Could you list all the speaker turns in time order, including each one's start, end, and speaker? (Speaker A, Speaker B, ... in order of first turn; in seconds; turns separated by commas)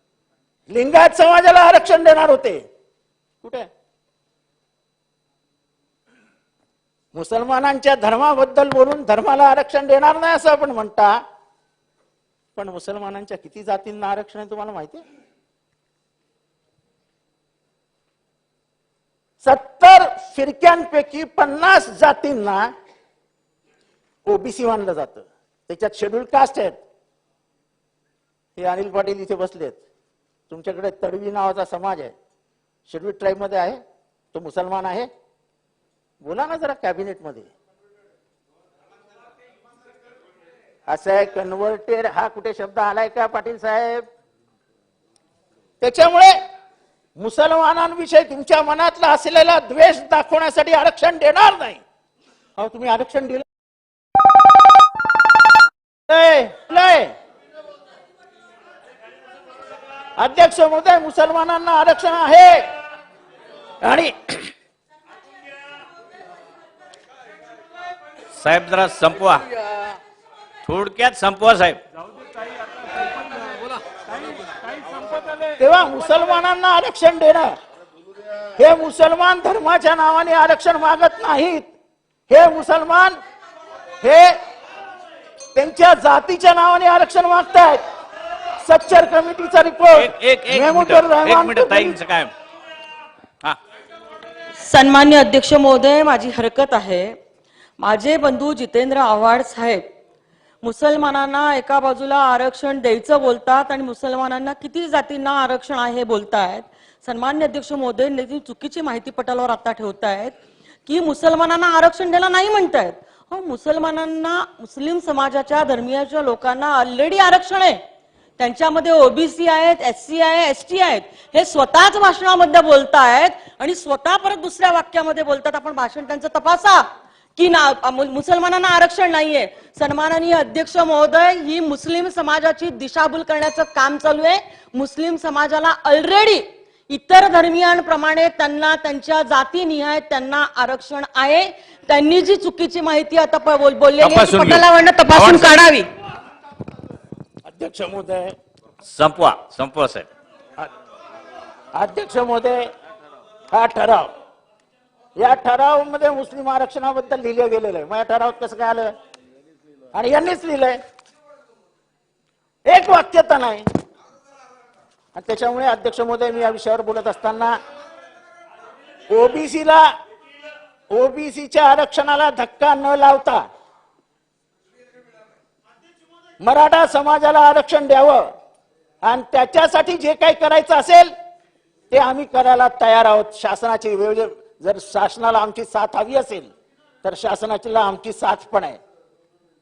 Speaker A: 0.7-2.6, Speaker A: 3.4-3.7, Speaker A: 7.1-11.1, Speaker A: 12.6-15.0, Speaker A: 19.4-22.7, Speaker A: 24.3-26.8, Speaker A: 28.6-29.8, Speaker A: 30.5-32.1, Speaker A: 32.9-33.8, Speaker A: 34.3-35.1, Speaker A: 36.2-37.5, Speaker A: 40.9-44.0, Speaker A: 45.8-46.4, Speaker A: 47.2-51.8, Speaker A: 52.6-53.5, Speaker A: 56.1-57.1, Speaker A: 60.2-62.7, Speaker A: 63.8-64.5, Speaker B: 68.4-69.5, Speaker B: 70.7-71.8, Speaker A: 75.5-77.5, Speaker A: 78.6-81.7, Speaker A: 82.3-83.2, Speaker A: 84.0-84.4, Speaker A: 85.5-87.8, Speaker A: 88.6-92.0, Speaker B: 89.9-92.3, Speaker C: 94.6-97.2, Speaker C: 97.8-99.8, Speaker C: 100.6-110.3, Speaker C: 110.9-117.8, Speaker C: 118.4-145.9, Speaker B: 144.0-145.6, Speaker A: 147.5-148.3, Speaker B: 148.8-150.1, Speaker A: 151.8-152.7, Speaker A: 153.5-154.1, Speaker A: 155.2-158.9, Speaker A: 159.9-160.8, Speaker A: 162.7-163.7, Speaker A: 165.2-167.6, Speaker A: 169.1-169.9, Speaker A: 170.9-173.4, Speaker A: 176.4-178.3, Speaker A: 179.0-181.1, Speaker A: 181.9-186.5, Speaker A: 187.0-188.8